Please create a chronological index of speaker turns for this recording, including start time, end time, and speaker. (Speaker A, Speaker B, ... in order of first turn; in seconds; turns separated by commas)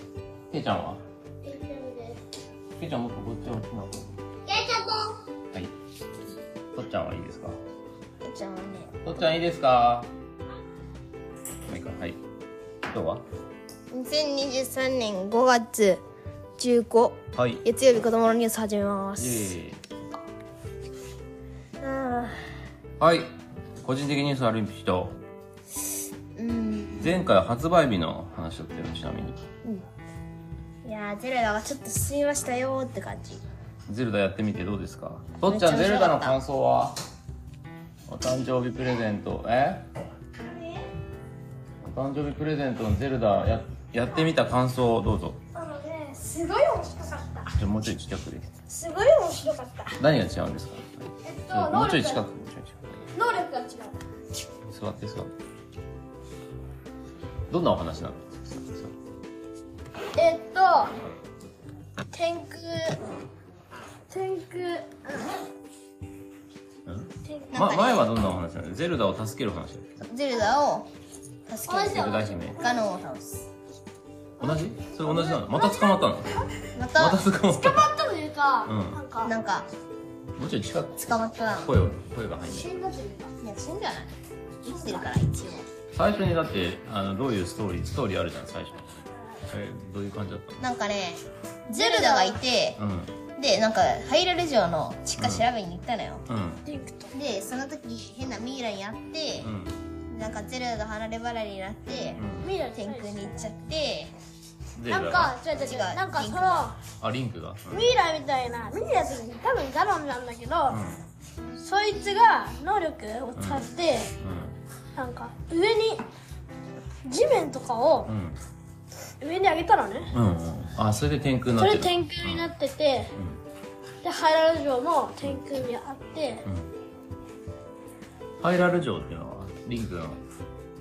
Speaker A: 0.5-1.0, Speaker B: 1.4-2.2, Speaker A: 2.8-4.2, Speaker B: 4.5-5.2, Speaker A: 6.8-7.6, Speaker C: 8.2-9.0, Speaker A: 9.0-10.1, Speaker A: 11.7-12.2, Speaker A: 12.9-13.2, Speaker C: 13.9-16.0, Speaker C: 16.6-19.6, Speaker A: 17.4-17.6, Speaker A: 19.2-19.8, Speaker C: 21.8-22.6, Speaker A: 23.0-23.3, Speaker A: 23.8-25.2, Speaker C: 26.4-27.3, Speaker A: 27.0-29.4, Speaker C: 30.8-33.4, Speaker A: 33.9-37.0, Speaker C: 35.5-36.4, Speaker A: 38.1-39.9, Speaker B: 40.5-40.9, Speaker A: 41.8-45.4, Speaker B: 45.5-47.5, Speaker A: 47.5-48.5, Speaker B: 48.7-50.0, Speaker A: 50.0-53.0, Speaker B: 51.2-52.2, Speaker B: 53.1-54.0, Speaker A: 54.7-55.3, Speaker A: 57.5-58.9, Speaker B: 60.1-61.0, Speaker B: 62.1-63.0, Speaker B: 64.1-65.3, Speaker A: 66.9-70.0, Speaker B: 67.3-67.5, Speaker C: 67.5-68.1, Speaker C: 70.0-70.9, Speaker C: 71.5-73.5, Speaker B: 71.6-72.9, Speaker A: 71.9-72.7, Speaker A: 74.4-76.3, Speaker B: 74.4-76.7, Speaker C: 76.8-77.3, Speaker A: 77.0-77.9, Speaker B: 77.4-79.3, Speaker A: 78.7-79.0, Speaker C: 79.2-79.7, Speaker A: 80.4-82.7, Speaker C: 81.0-81.7, Speaker B: 82.5-83.3, Speaker C: 83.4-84.1, Speaker C: 84.6-85.7, Speaker B: 84.7-85.1, Speaker A: 85.9-88.8, Speaker A: 89.5-90.6, Speaker C: 90.6-92.8, Speaker B: 91.7-92.4, Speaker A: 92.8-93.2, Speaker C: 93.4-96.3, Speaker A: 95.2-95.5, Speaker A: 96.3-96.6, Speaker B: 96.7-97.1, Speaker C: 97.1-99.5, Speaker A: 99.4-99.8, Speaker C: 100.1-102.2, Speaker A: 102.2-102.5, Speaker B: 102.4-103.5, Speaker C: 102.7-104.1, Speaker A: 104.8-105.4, Speaker B: 104.9-106.8, Speaker C: 105.5-106.7, Speaker A: 107.0-107.9, Speaker B: 107.7-110.8, Speaker A: 110.7-111.0, Speaker B: 111.6-114.1, Speaker A: 113.3-114.6, Speaker B: 115.0-116.0, Speaker B: 117.0-118.1, Speaker A: 118.1-118.4, Speaker B: 119.2-120.1, Speaker A: 120.1-122.5, Speaker B: 121.6-123.1, Speaker A: 123.2-123.4, Speaker B: 124.0-126.5, Speaker A: 126.5-126.7, Speaker A: 128.4-130.2